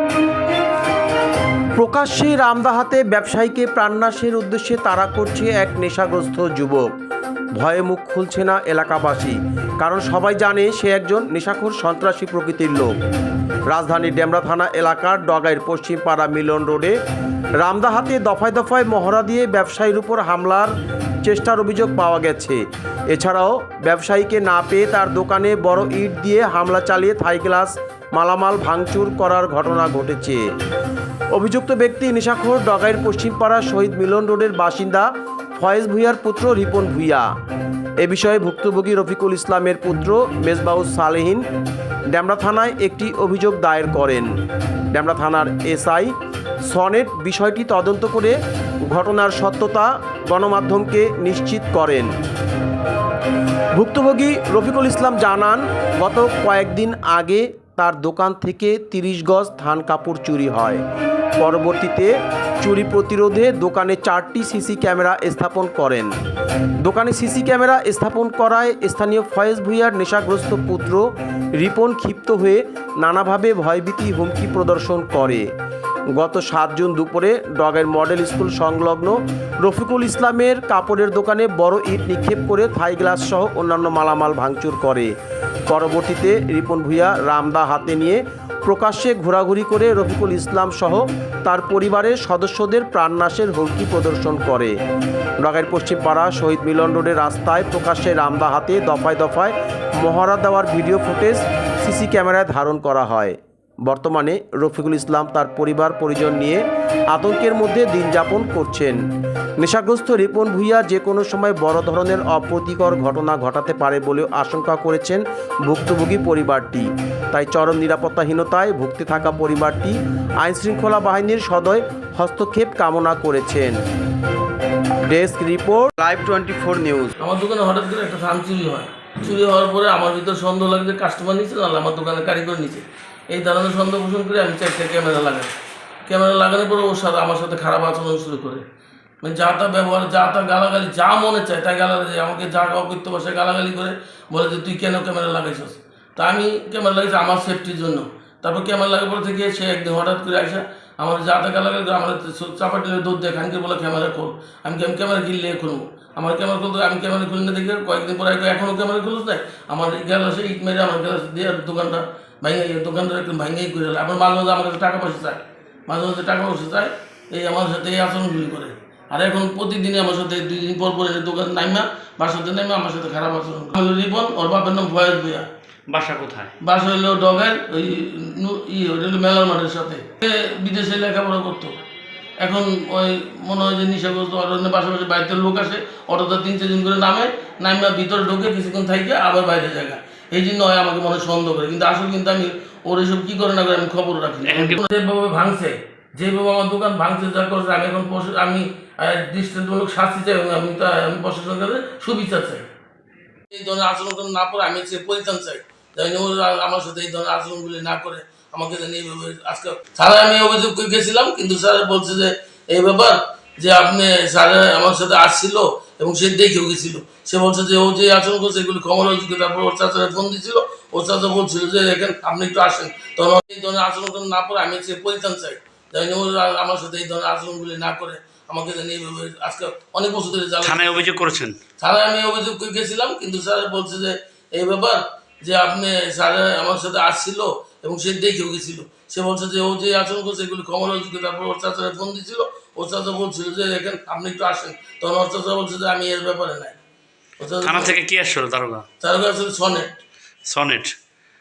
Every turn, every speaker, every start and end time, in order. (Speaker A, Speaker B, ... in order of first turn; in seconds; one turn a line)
Speaker A: 1.8-6.9
Speaker A: 7.5-13.0
Speaker A: 13.7-16.9
Speaker A: 17.6-20.7
Speaker A: 21.2-30.4
Speaker A: 31.3-37.3
Speaker A: 38.0-41.4
Speaker A: 42.1-44.3
Speaker A: 44.9-46.1
Speaker A: 46.7-48.4
Speaker A: 48.9-52.1
Speaker A: 53.7-60.8
Speaker A: 61.4-66.1
Speaker A: 66.8-75.5
Speaker A: 76.2-85.1
Speaker A: 85.7-94.7
Speaker A: 95.4-109.0
Speaker A: 109.6-123.8
Speaker A: 125.1-127.1
Speaker B: 127.2-135.5
Speaker B: 136.1-138.6
Speaker B: 139.2-175.5
Speaker C: 175.9-176.5
Speaker B: 176.6-181.7
Speaker B: 182.4-202.6
Speaker C: 194.4-194.8
Speaker B: 203.5-231.0
Speaker C: 230.6-231.6
Speaker B: 231.8-246.8
Speaker B: 247.4-247.9
Speaker C: 247.6-248.8
Speaker B: 249.0-249.9
Speaker C: 250.5-250.9